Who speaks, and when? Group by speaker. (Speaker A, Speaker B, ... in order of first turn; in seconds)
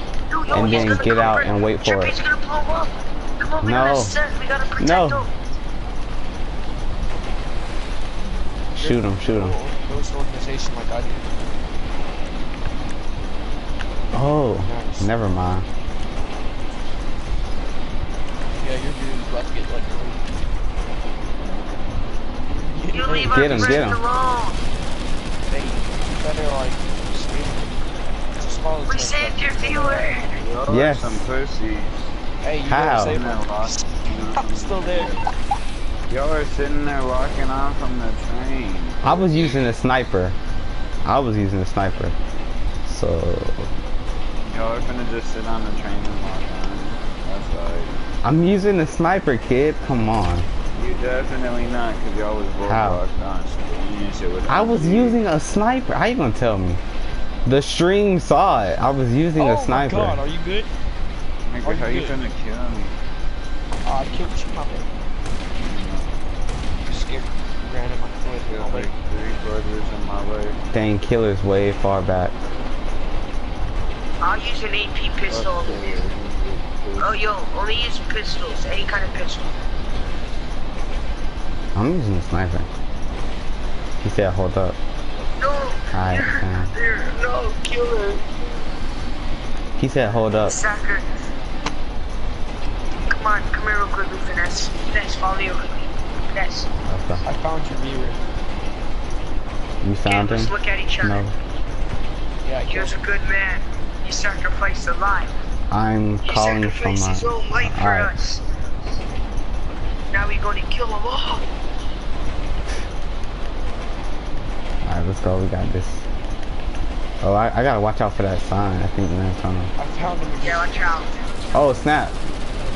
Speaker A: 0.3-5.3, 22.9-24.6, 28.9-30.4, 74.2-76.0, 77.0-79.6, 85.4-88.2, 90.3-91.1, 93.1-96.7, 100.1-101.3, 102.7-105.4, 106.3-108.4, 110.1-111.5, 120.4-121.1
Speaker B: 0.5-1.7, 8.8-11.2, 14.7-15.1, 18.6-20.2, 22.6-23.9, 25.5-30.4, 32.4-35.3, 59.4-60.7, 61.6-62.2, 63.8-64.9, 66.9-68.9, 97.2-98.3, 102.4-103.0, 119.8-120.8
Speaker C: 0.5-2.2, 3.6-4.1, 4.8-5.3, 8.8-9.6, 14.1-15.7, 23.3-24.0, 30.7-31.3, 32.7-33.2, 39.0-40.4, 41.0-42.2, 42.9-43.7, 48.2-50.5, 52.6-53.0, 54.5-56.8, 57.5-60.2, 70.7-72.3, 81.7-82.7, 84.0-84.8, 85.9-86.7, 89.8-90.6, 96.8-97.2, 99.8-101.3, 105.7-108.1, 114.8-116.0, 117.2-119.7, 121.5-122.2
Speaker D: 30.3-31.9, 32.9-35.2, 36.1-39.5, 44.4-47.9, 50.7-55.2, 61.5-63.0, 65.6-66.2, 68.5-70.6, 75.3-77.1